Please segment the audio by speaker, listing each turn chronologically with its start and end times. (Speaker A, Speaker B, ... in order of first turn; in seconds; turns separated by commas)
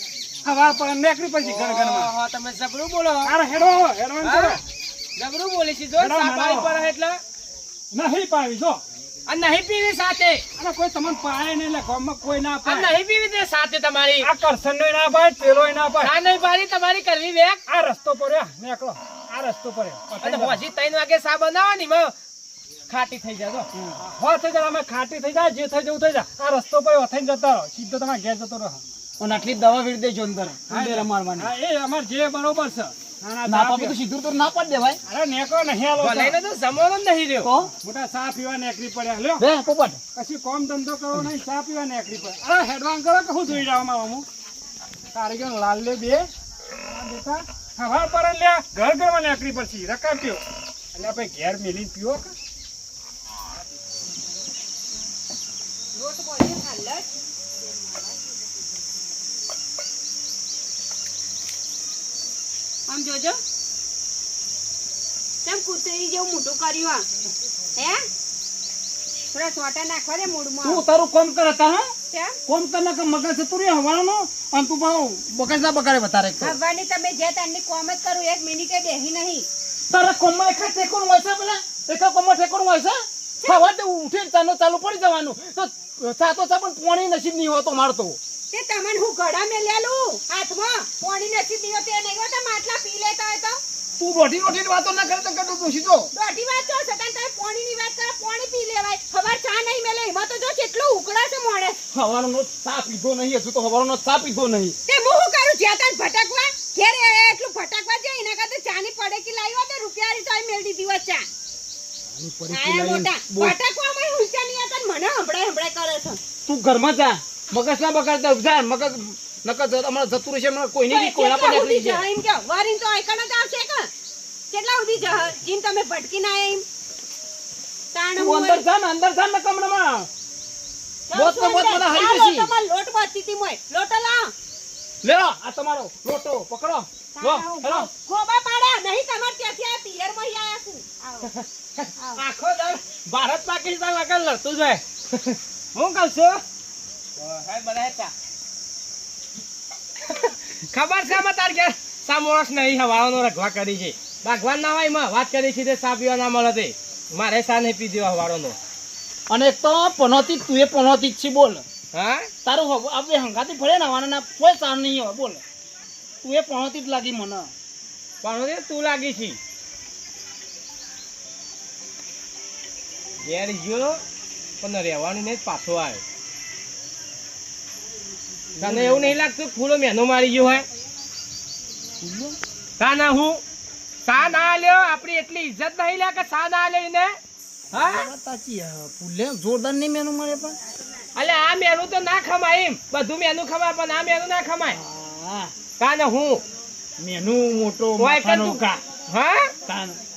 Speaker A: 0.4-2.1, Speaker B: 1.4-3.3, Speaker A: 3.2-4.6, Speaker B: 4.2-4.6, Speaker B: 5.2-7.2, Speaker A: 6.0-6.7, Speaker A: 7.9-8.8, Speaker B: 9.3-10.4, Speaker A: 10.6-12.9, Speaker B: 12.6-14.3, Speaker A: 14.2-16.1, Speaker B: 16.0-17.6, Speaker A: 17.7-20.6, Speaker B: 20.1-22.1, Speaker B: 22.9-23.7, Speaker A: 23.8-28.8, Speaker C: 29.2-31.5, Speaker A: 30.7-34.0, Speaker C: 33.5-35.0, Speaker A: 35.1-36.4, Speaker B: 36.0-37.5, Speaker C: 37.4-37.7, Speaker A: 37.8-39.4, Speaker C: 39.4-40.0, Speaker A: 40.1-44.2, Speaker A: 45.1-50.4, Speaker A: 50.9-52.3, Speaker D: 55.9-57.1, Speaker D: 62.9-63.4, Speaker D: 65.4-67.1, Speaker D: 67.8-68.0, Speaker D: 69.3-70.8, Speaker C: 70.6-71.9, Speaker D: 72.1-72.4, Speaker C: 72.5-76.6, Speaker D: 76.4-79.5, Speaker C: 79.9-88.2, Speaker D: 83.4-83.7, Speaker D: 88.5-93.6, Speaker C: 94.0-96.1, Speaker D: 96.1-101.8, Speaker C: 101.9-104.8, Speaker D: 104.9-111.3, Speaker C: 112.1-113.6, Speaker D: 112.5-116.2, Speaker C: 116.5-122.0, Speaker D: 120.9-123.9, Speaker D: 124.5-126.6, Speaker D: 127.9-128.6, Speaker C: 128.1-130.1, Speaker D: 131.1-134.3, Speaker C: 131.1-132.5, Speaker C: 135.0-137.9, Speaker D: 137.2-141.3, Speaker B: 141.2-146.4, Speaker D: 142.0-142.2, Speaker B: 147.2-148.1, Speaker B: 150.0-158.6, Speaker C: 159.3-161.7, Speaker B: 161.9-162.3, Speaker C: 162.4-165.4, Speaker C: 166.2-167.5, Speaker B: 168.2-169.4, Speaker B: 173.2-174.0, Speaker B: 174.6-176.0, Speaker C: 178.5-179.2, Speaker B: 178.6-180.7, Speaker C: 182.0-182.4, Speaker B: 182.8-183.4, Speaker B: 184.1-187.2, Speaker B: 187.7-188.1, Speaker C: 187.7-190.6, Speaker B: 191.1-194.8, Speaker C: 194.7-195.5, Speaker B: 195.8-196.4, Speaker C: 197.0-198.8, Speaker B: 198.0-199.5, Speaker C: 199.7-200.0